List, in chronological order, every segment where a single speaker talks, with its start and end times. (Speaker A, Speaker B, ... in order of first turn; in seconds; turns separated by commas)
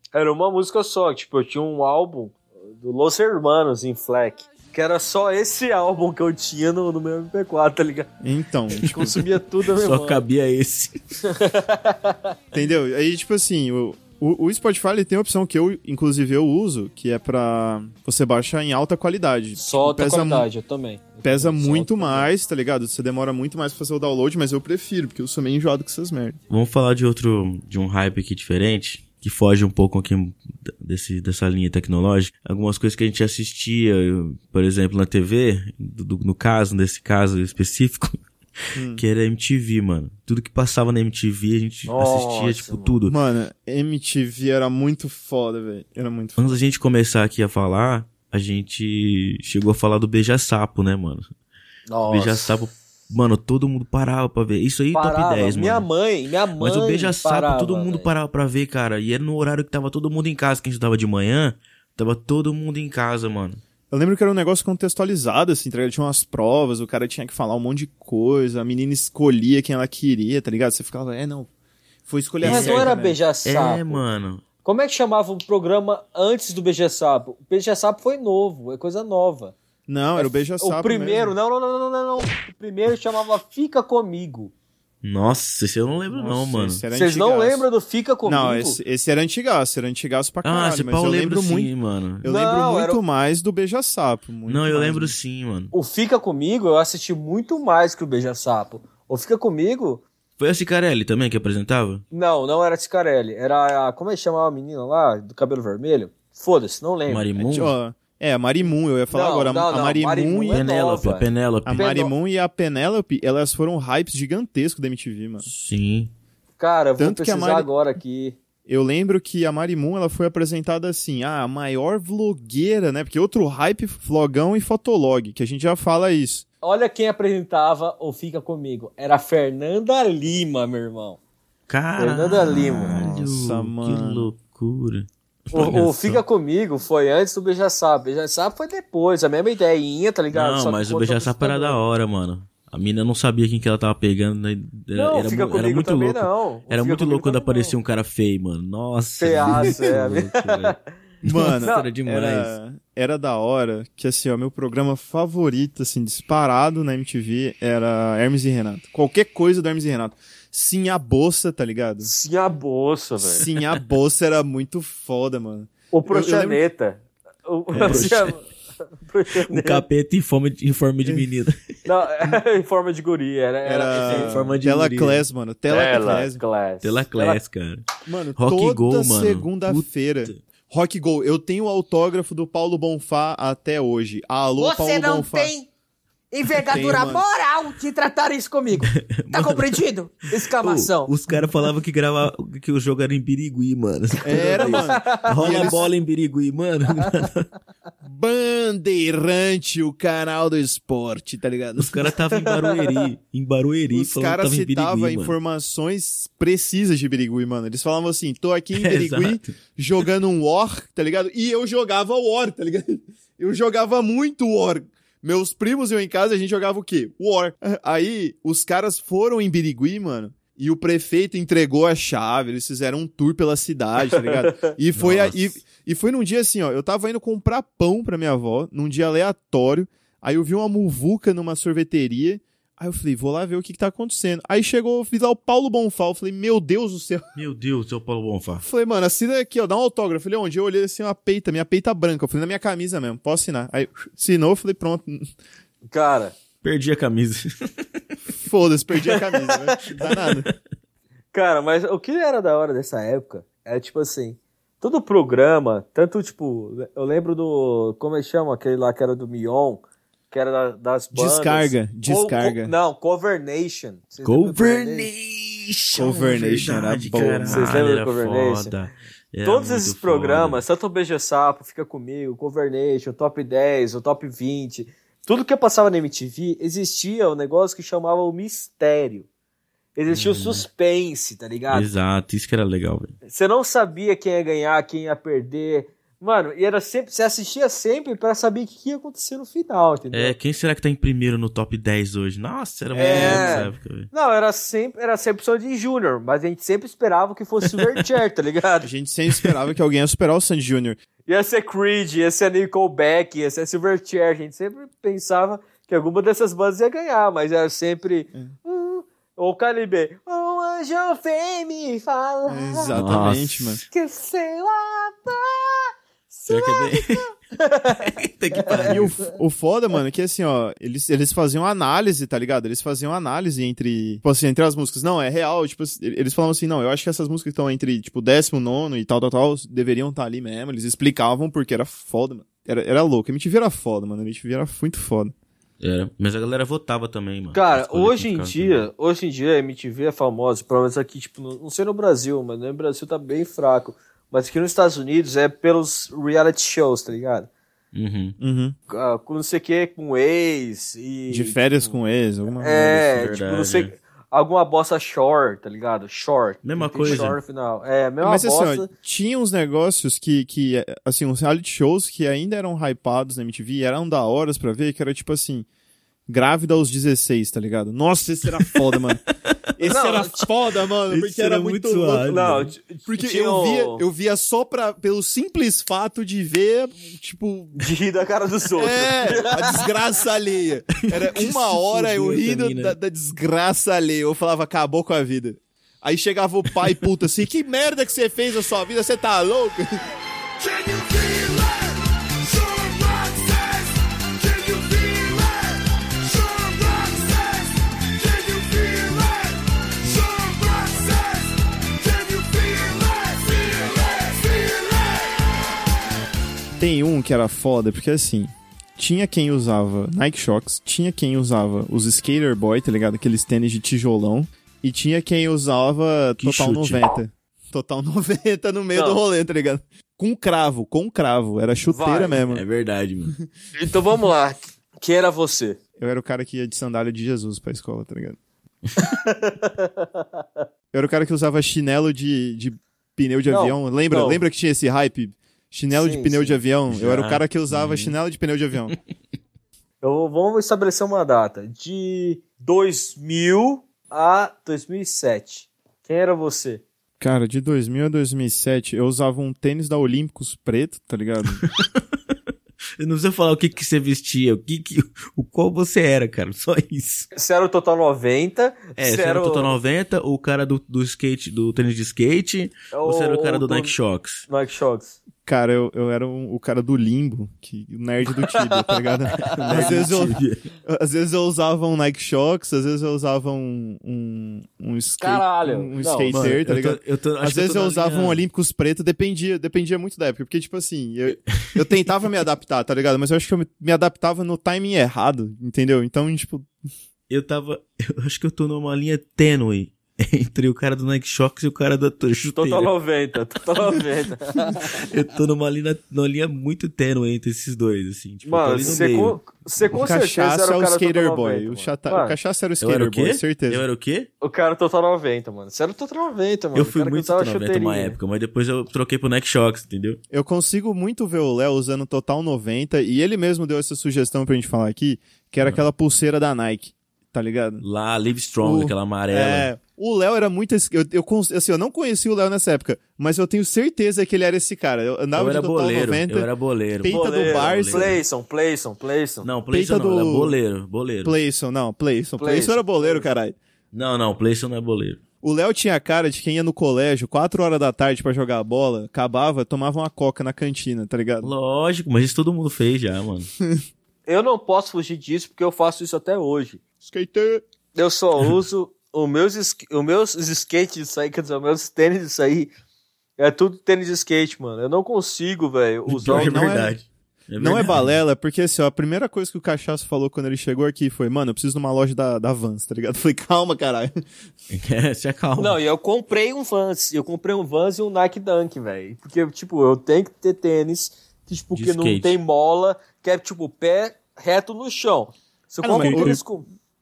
Speaker A: 0.1-8.1, Speaker B: 8.2-9.2, Speaker A: 8.7-10.2, Speaker C: 9.7-11.0, Speaker A: 11.2-12.3, Speaker B: 12.5-20.5, Speaker A: 19.6-22.3, Speaker B: 21.2-26.4, Speaker C: 26.5-38.2, Speaker B: 38.8-39.0, Speaker C: 39.0-43.1, Speaker A: 41.9-43.0, Speaker B: 43.1-46.6, Speaker C: 46.4-51.3, Speaker A: 51.9-52.6, Speaker C: 52.1-55.9, Speaker A: 54.9-58.1, Speaker C: 56.6-63.6, Speaker B: 63.9-71.5, Speaker B: 72.1-73.2, Speaker C: 72.4-74.4, Speaker A: 72.4-74.0, Speaker A: 74.6-79.5, Speaker B: 79.9-81.4, Speaker A: 80.2-84.5, Speaker C: 85.0-86.8, Speaker B: 86.1-87.7, Speaker A: 86.9-88.8, Speaker B: 88.3-95.2, Speaker C: 90.4-92.2, Speaker A: 92.2-93.0, Speaker C: 94.5-95.7, Speaker A: 95.7-100.0, Speaker C: 100.4-102.0, Speaker A: 102.1-107.7, Speaker C: 107.1-107.7, Speaker B: 107.5-110.6, Speaker A: 109.1-112.1, Speaker C: 110.5-111.9, Speaker B: 111.7-115.5, Speaker C: 115.5-116.1, Speaker A: 116.6-118.4, Speaker B: 117.0-117.7, Speaker B: 118.7-126.5, Speaker A: 126.6-131.2, Speaker C: 131.7-136.2, Speaker A: 132.0-133.0, Speaker B: 133.0-134.3, Speaker A: 135.5-141.8, Speaker C: 140.3-152.6, Speaker A: 144.9-147.8, Speaker A: 149.2-150.8, Speaker B: 151.2-162.1, Speaker A: 151.6-151.9, Speaker A: 162.0-163.5, Speaker B: 163.2-166.6, Speaker A: 165.9-168.4, Speaker B: 167.7-168.1, Speaker C: 167.8-168.3, Speaker A: 169.0-169.8, Speaker C: 169.5-171.6, Speaker A: 171.8-174.5, Speaker B: 173.6-176.4, Speaker C: 174.0-175.2, Speaker A: 175.7-177.4, Speaker C: 176.8-177.8, Speaker B: 178.1-185.5, Speaker C: 178.4-180.4, Speaker D: 184.6-185.7, Speaker D: 186.3-190.3, Speaker B: 186.6-187.2, Speaker C: 188.8-189.8, Speaker A: 190.3-191.1, Speaker C: 190.5-197.5, Speaker B: 194.2-195.9, Speaker A: 194.4-195.7, Speaker B: 198.0-202.1, Speaker C: 201.8-205.3, Speaker A: 202.4-203.0, Speaker B: 203.9-237.3, Speaker C: 208.7-209.5, Speaker A: 224.2-224.7, Speaker C: 225.0-225.5, Speaker C: 237.4-238.6, Speaker B: 238.6-245.3, Speaker A: 245.9-246.3, Speaker C: 246.6-247.5, Speaker B: 248.3-250.5, Speaker C: 250.0-250.5, Speaker A: 251.3-265.1, Speaker B: 261.1-262.7, Speaker C: 264.2-270.6, Speaker B: 266.0-267.8, Speaker A: 267.4-268.7, Speaker A: 269.4-279.3, Speaker A: 280.0-281.9, Speaker C: 280.1-280.7, Speaker C: 281.7-283.1, Speaker A: 283.3-290.4, Speaker C: 290.1-294.1, Speaker B: 292.9-293.7, Speaker A: 293.0-298.9, Speaker B: 298.8-301.0, Speaker A: 301.3-312.9, Speaker B: 312.5-313.8, Speaker C: 312.9-313.8, Speaker A: 313.9-319.2, Speaker C: 316.5-317.3, Speaker C: 318.0-319.2, Speaker B: 318.9-335.3, Speaker C: 335.8-338.9, Speaker A: 337.5-347.5, Speaker C: 347.9-348.4, Speaker B: 348.4-348.8, Speaker A: 348.9-351.9, Speaker B: 351.3-353.2, Speaker A: 352.6-358.9, Speaker C: 353.2-353.9, Speaker C: 356.6-357.4, Speaker B: 357.1-357.3, Speaker B: 358.2-365.7, Speaker B: 366.3-369.2, Speaker B: 369.8-372.3, Speaker A: 369.8-370.4, Speaker C: 371.1-372.7, Speaker A: 372.2-374.1, Speaker B: 373.1-377.9, Speaker A: 377.8-379.9, Speaker B: 378.8-390.0, Speaker C: 381.0-383.0, Speaker E: 390.6-405.3, Speaker B: 406.8-422.6, Speaker C: 416.4-417.0, Speaker A: 418.9-419.2, Speaker A: 421.9-422.4, Speaker C: 422.5-423.4, Speaker A: 423.8-425.8, Speaker B: 426.0-428.4, Speaker A: 429.0-430.6, Speaker B: 430.9-438.9, Speaker A: 433.5-434.4, Speaker A: 436.0-436.6, Speaker C: 436.9-438.1, Speaker A: 440.0-446.8, Speaker B: 447.2-451.6, Speaker C: 451.6-451.9, Speaker C: 453.0-457.3, Speaker A: 457.3-459.8, Speaker C: 459.0-464.5, Speaker A: 462.9-463.9, Speaker A: 464.5-465.2, Speaker B: 465.5-486.7, Speaker A: 468.5-470.0, Speaker C: 469.5-470.6, Speaker A: 475.2-476.4, Speaker C: 476.3-478.4, Speaker C: 481.5-481.8, Speaker C: 487.3-492.9, Speaker A: 492.6-495.1, Speaker C: 494.9-499.4, Speaker A: 498.5-502.4, Speaker B: 499.9-503.9, Speaker C: 502.8-504.3, Speaker A: 504.4-508.2, Speaker C: 506.8-510.2, Speaker B: 510.3-517.9, Speaker C: 517.8-519.7, Speaker B: 518.6-528.2, Speaker C: 525.4-528.2, Speaker A: 527.1-529.5, Speaker C: 529.4-531.4, Speaker B: 529.7-530.6, Speaker B: 531.2-533.6, Speaker A: 532.4-533.3, Speaker C: 533.9-535.2, Speaker B: 535.4-541.5, Speaker C: 541.4-543.5, Speaker A: 544.3-546.8, Speaker B: 547.0-547.6, Speaker A: 548.0-552.7, Speaker A: 553.4-556.7, Speaker C: 556.1-558.1, Speaker B: 556.2-557.0, Speaker B: 557.6-564.2, Speaker C: 564.7-565.8, Speaker A: 565.6-576.7, Speaker C: 571.8-572.4, Speaker B: 575.8-576.4, Speaker C: 576.0-576.4